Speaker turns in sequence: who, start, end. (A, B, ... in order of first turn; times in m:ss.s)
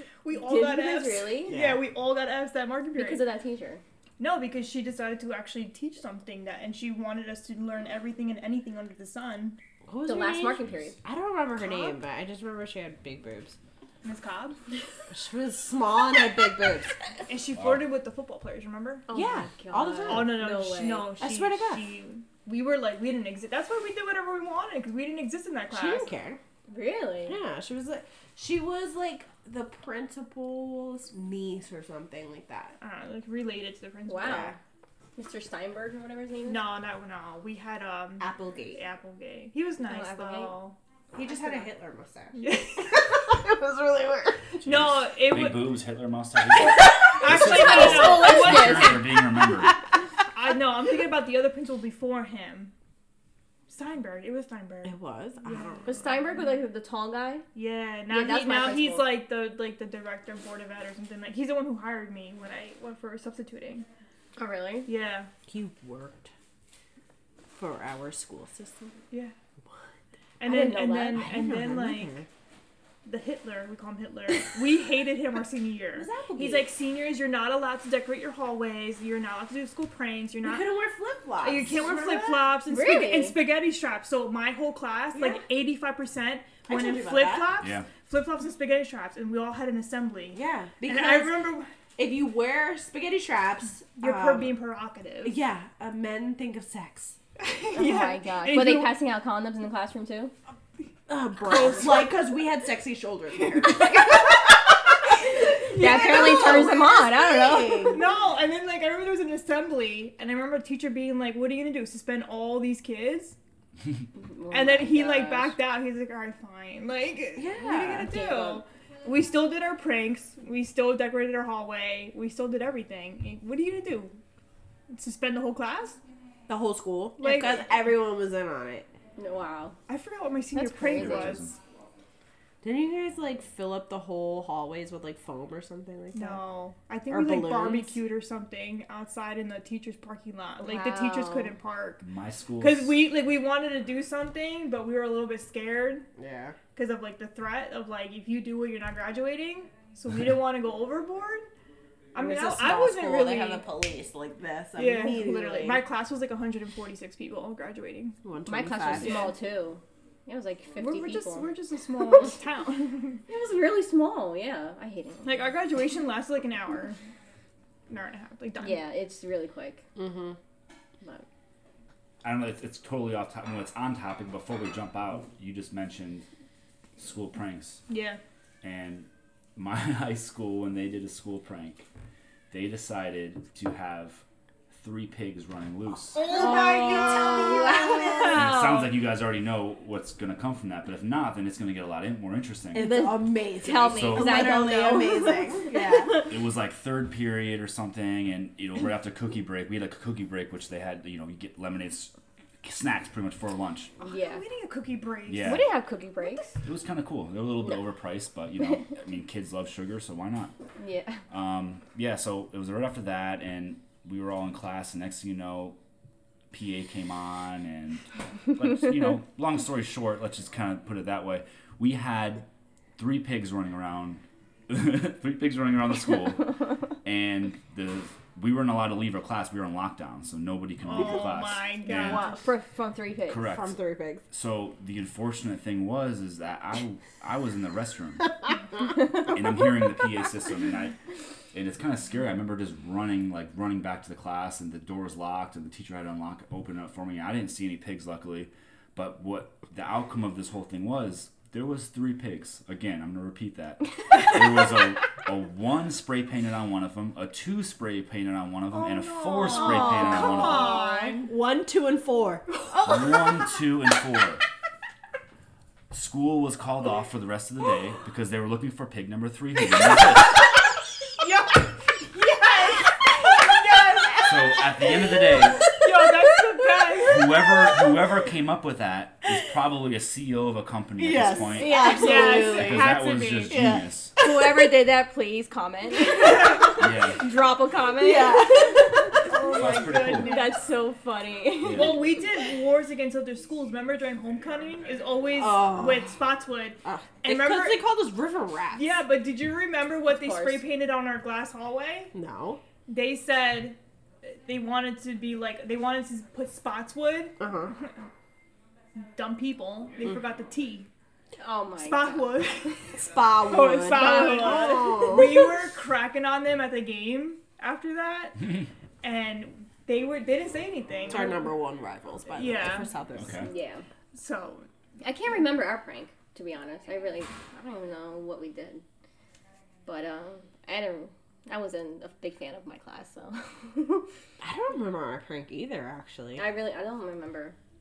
0:00.2-0:03.3 A
0:00.4-0:01.6 B
0:01.5-0:01.8 C
0:02.9-0:03.8 B
0:04.2-0:09.6 A
0:09.9-0:13.6 C
0:10.0-0:11.0 B
0:11.6-0:12.0 A
0:14.0-0:14.6 A
0:15.1-0:17.1 C
0:17.3-0:19.1 A
0:17.6-0:17.8 D
0:19.1-0:21.2 B
0:19.1-0:20.5 C
0:20.1-0:26.1 A
0:21.2-0:21.9 C
0:25.7-0:26.4 C
0:26.7-0:27.4 B
0:27.3-0:32.8 C
0:32.8-0:34.6 A
0:34.1-0:34.5 B
0:34.2-0:34.6 C
0:35.2-0:36.6 B
0:36.5-0:40.8 A
0:38.2-0:38.8 C
0:39.8-0:40.6 B
0:41.1-0:44.6 C
0:42.4-0:43.2 A
0:44.6-0:49.8 D
0:44.7-0:45.8 A
0:46.9-0:49.0 A
0:47.3-0:49.7 C
0:47.4-0:49.2 B
0:50.3-0:52.7 A
0:53.7-0:56.4 A
0:54.8-0:56.0 C
0:55.9-0:57.4 B
0:57.5-1:03.9 A
0:58.1-0:59.1 B
1:04.4-1:04.9 B
1:04.9-1:05.3 A
1:05.5-1:06.3 C
1:07.5-1:09.0 C
1:10.4-1:12.2 A
1:10.4-1:11.4 B
1:11.2-1:12.3 C
1:13.0-1:20.7 A
1:15.9-1:16.7 C
1:20.4-1:22.6 C
1:21.4-1:31.7 A
1:22.7-1:23.4 B
1:25.2-1:25.4 C
1:26.7-1:27.6 C
1:27.6-1:27.9 D
1:30.3-1:34.6 C
1:34.0-1:35.4 A
1:35.2-1:37.2 C
1:37.4-1:39.0 A
1:37.7-1:40.3 B
1:41.1-1:48.1 C
1:41.4-1:42.2 A
1:45.6-1:46.8 A
1:45.6-1:48.0 B
1:47.9-1:53.4 A
1:54.2-1:55.6 B
1:54.5-2:04.2 A
1:57.4-1:58.1 C
1:58.0-1:58.6 B
2:04.9-2:06.0 A
2:06.5-2:08.9 C
2:07.2-2:07.7 A
2:09.2-2:09.8 B
2:09.9-2:11.6 A
2:10.5-2:11.5 B
2:10.9-2:11.5 D
2:12.6-2:16.4 C
2:16.1-2:22.0 A
2:17.1-2:18.0 C
2:20.6-2:21.6 B
2:22.0-2:23.0 D
2:22.6-2:26.1 A
2:26.2-2:26.6 C
2:26.8-2:31.5 A
2:32.1-2:33.6 A
2:32.2-2:35.9 C
2:34.8-2:38.2 A
2:38.2-2:39.4 C
2:38.5-2:41.5 B
2:38.9-2:39.4 A
2:40.8-2:43.2 A
2:43.3-2:45.5 B
2:45.2-2:47.0 A
2:47.9-2:48.8 A
2:48.6-2:49.9 B
2:50.0-2:50.4 C
2:52.2-2:56.3 D
2:57.0-2:57.8 D
2:57.9-2:58.2 A
2:58.6-3:01.9 D
3:02.5-3:06.2 D
3:06.2-3:08.5 A
3:06.3-3:08.5 C
3:06.4-3:08.1 B
3:08.2-3:12.9 D
3:12.8-3:16.3 C
3:12.8-3:16.3 B
3:13.9-3:14.7 D
3:16.2-3:23.9 D
3:24.0-3:25.7 A
3:24.0-3:24.4 B
3:25.2-3:25.7 D
3:25.4-3:26.5 B
3:26.6-3:30.5 D
3:30.8-3:31.2 B
3:31.3-3:35.8 D
3:36.5-3:42.5 D
3:43.0-3:52.4 D
3:50.8-3:52.5 A
3:51.9-3:53.5 B
3:53.3-3:53.8 D
3:53.5-3:54.2 C
3:54.3-4:01.0 D
4:01.5-4:20.8 D
4:18.7-4:21.3 A
4:19.4-4:22.6 C
4:22.8-4:24.5 D
4:25.9-4:30.4 D
4:31.2-4:34.4 A
4:33.2-4:37.0 C
4:34.2-4:35.7 D
4:35.8-4:37.4 A
4:37.1-4:44.2 D
4:41.0-4:44.3 C
4:41.5-4:42.6 B
4:41.9-4:43.7 A
4:44.2-4:49.3 B
4:46.8-4:47.2 D
4:47.9-4:49.2 C
4:49.2-4:50.6 A
4:49.5-4:50.4 D
4:50.1-4:52.1 B
4:51.6-4:52.0 D
4:51.7-4:57.8 A
4:55.4-4:56.2 C
4:56.8-4:59.0 C
4:58.7-5:02.1 A
5:00.1-5:00.6 B
5:02.1-5:02.6 C
5:02.9-5:08.1 A
5:07.4-5:07.7 C
5:09.0-5:10.9 A
5:11.4-5:12.8 B
5:11.8-5:12.8 A
5:13.0-5:15.5 C
5:13.3-5:21.5 A
5:13.9-5:15.0 B
5:21.1-5:23.4 C
5:22.3-5:22.9 A
5:23.2-5:23.5 D
5:23.4-5:23.9 B
5:24.1-5:24.7 A
5:25.0-5:28.8 B
5:29.9-5:34.1 B
5:34.4-5:36.5 C
5:36.4-5:37.6 B